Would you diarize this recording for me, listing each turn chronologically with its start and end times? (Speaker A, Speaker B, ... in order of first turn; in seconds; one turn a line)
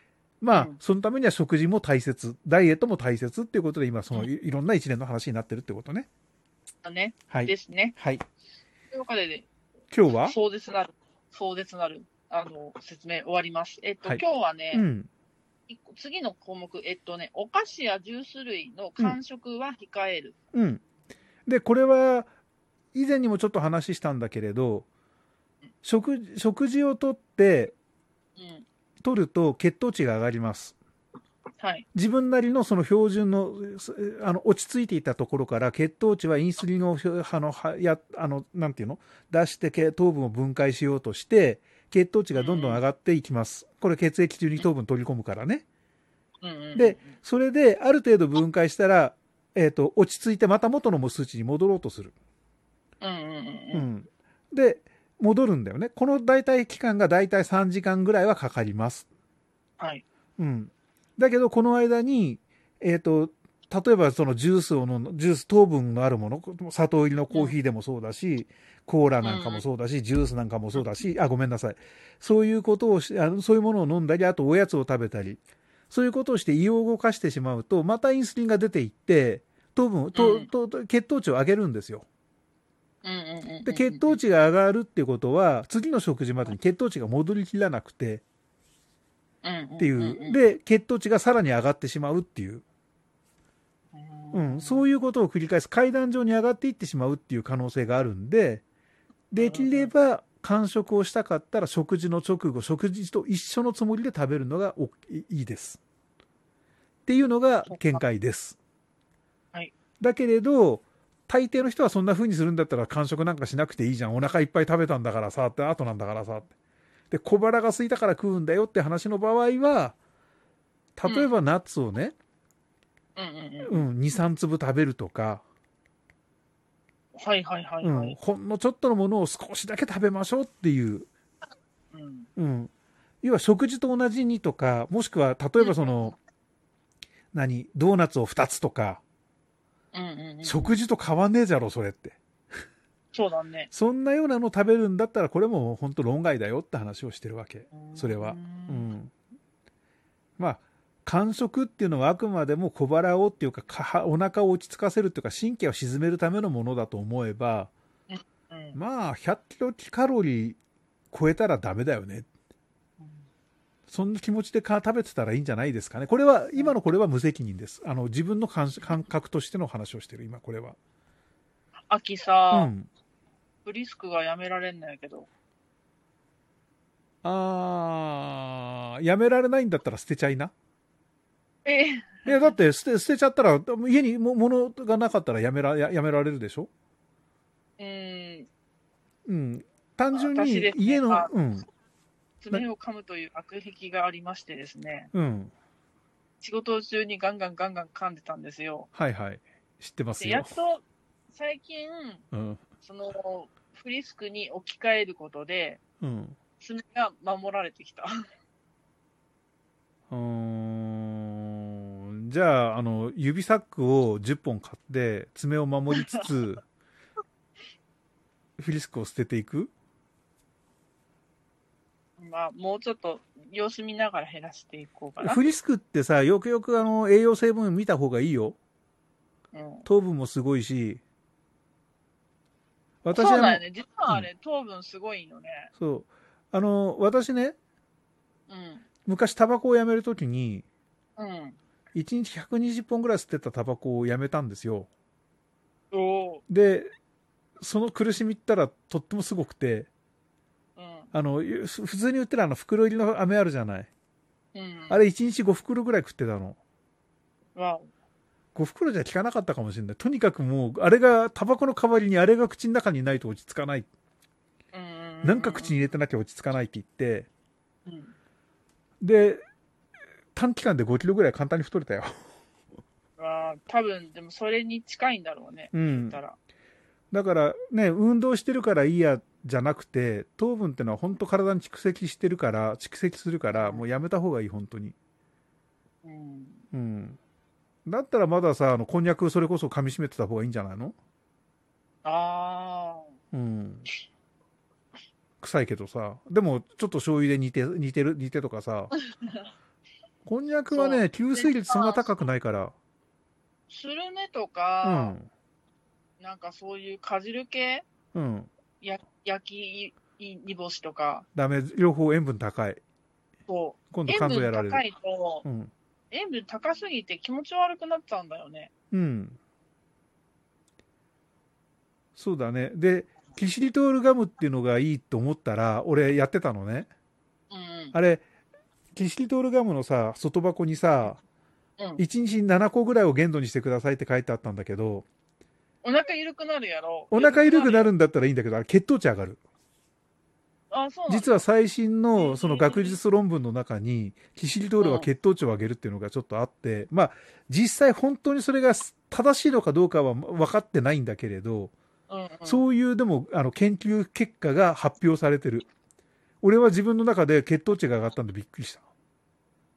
Speaker A: 0.4-6.1
Speaker B: 0.5-0.8
Speaker B: 6.8-8.0
Speaker A: 7.3-8.2
Speaker B: 8.9-9.5
Speaker A: 9.9-10.3
Speaker B: 10.2-14.8
Speaker A: 14.7-15.1
Speaker B: 15.7-20.4
Speaker A: 20.5-20.8
Speaker A: 21.5-22.3
Speaker A: 22.9-24.9
Speaker A: 25.8-27.8
Speaker B: 28.4-28.7
Speaker A: 29.0-30.8
Speaker B: 31.6-31.9
Speaker A: 31.9-45.6
Speaker B: 42.4-42.8
Speaker B: 46.4-47.1
Speaker A: 46.8-52.1
Speaker B: 53.0-53.9
Speaker A: 53.7-59.1
Speaker B: 59.8-60.0
Speaker A: 60.4-82.1
Speaker B: 69.2-69.6
Speaker B: 80.1-80.5
Speaker B: 83.0-84.2
Speaker A: 83.6-88.2
Speaker B: 89.4-90.4
Speaker A: 89.8-92.6
Speaker B: 93.9-94.9
Speaker A: 94.3-98.6
Speaker A: 99.3-105.8
Speaker B: 99.4-99.9
Speaker A: 107.1-108.6
Speaker B: 107.7-108.0
Speaker A: 110.0-116.5
Speaker A: 117.1-120.0
Speaker A: 121.0-122.1
Speaker B: 123.2-123.9
Speaker A: 123.6-125.4
Speaker B: 127.2-128.2
Speaker A: 127.8-131.1
Speaker B: 131.9-132.3
Speaker A: 132.4-132.7
Speaker A: 133.2-136.2
Speaker B: 135.6-136.1
Speaker A: 137.3-139.0
Speaker B: 139.9-140.8
Speaker A: 140.4-142.2
Speaker B: 143.1-143.7
Speaker A: 143.7-149.1
Speaker B: 147.7-148.9
Speaker A: 150.4-157.7
Speaker B: 158.1-158.8
Speaker A: 158.8-160.6
Speaker A: 161.1-162.3
Speaker B: 163.0-163.3
Speaker A: 163.9-170.8
Speaker B: 171.9-172.7
Speaker A: 172.5-172.9
Speaker B: 173.7-175.3
Speaker A: 177.2-180.5
Speaker B: 181.7-182.6
Speaker A: 182.3-186.7
Speaker B: 187.8-188.5
Speaker A: 189.3-191.7
Speaker B: 190.1-191.3
Speaker B: 192.4-195.1
Speaker A: 195.1-195.5
Speaker B: 196.4-198.9
Speaker A: 198.9-200.5
Speaker B: 200.2-202.3
Speaker A: 202.3-202.6
Speaker B: 202.8-205.8
Speaker A: 206.0-206.4
Speaker B: 206.6-208.1
Speaker A: 210.1-216.6
Speaker B: 215.9-216.3
Speaker A: 218.6-219.7
Speaker B: 222.2-225.4
Speaker A: 225.2-228.6
Speaker B: 229.5-229.9
Speaker A: 229.9-231.0
Speaker A: 233.0-234.3
Speaker B: 233.1-235.7
Speaker A: 235.8-237.6
Speaker B: 238.5-238.8
Speaker A: 239.1-240.7
Speaker B: 241.2-241.6
Speaker A: 241.9-244.9
Speaker B: 245.9-246.4
Speaker A: 246.5-246.9
Speaker A: 247.6-249.9
Speaker B: 250.8-251.1
Speaker A: 251.1-253.9
Speaker B: 254.6-255.0
Speaker A: 254.9-256.6
Speaker B: 257.6-257.9
Speaker A: 258.6-263.9
Speaker B: 264.7-265.8
Speaker A: 265.2-267.3
Speaker B: 267.9-268.1
Speaker A: 269.0-269.4
Speaker A: 270.3-272.1
Speaker B: 273.2-276.4
Speaker A: 275.7-276.2
Speaker A: 277.1-284.9
Speaker B: 283.5-283.8
Speaker B: 286.0-286.6
Speaker A: 286.7-287.2
Speaker A: 287.9-290.9
Speaker B: 292.1-293.1
Speaker A: 293.3-293.9
Speaker A: 295.4-298.9
Speaker A: 300.3-302.8
Speaker B: 300.7-302.1
Speaker B: 303.7-305.1
Speaker A: 304.8-305.3
Speaker B: 306.2-307.9
Speaker A: 308.1-308.5
Speaker B: 308.8-311.3
Speaker A: 311.4-312.8
Speaker B: 313.5-315.5
Speaker A: 313.9-314.8
Speaker A: 315.4-315.7
Speaker B: 316.1-318.7
Speaker A: 318.9-319.4
Speaker A: 322.2-326.9
Speaker B: 327.5-327.9
Speaker A: 327.9-328.2
Speaker A: 328.9-331.2
Speaker B: 331.8-332.0
Speaker A: 332.0-335.1
Speaker B: 335.8-337.9
Speaker A: 337.1-339.4
Speaker B: 340.7-341.4
Speaker A: 341.1-351.7
Speaker B: 342.2-343.0
Speaker B: 344.8-345.1
Speaker B: 352.1-352.7
Speaker A: 352.5-355.7
Speaker A: 356.4-358.9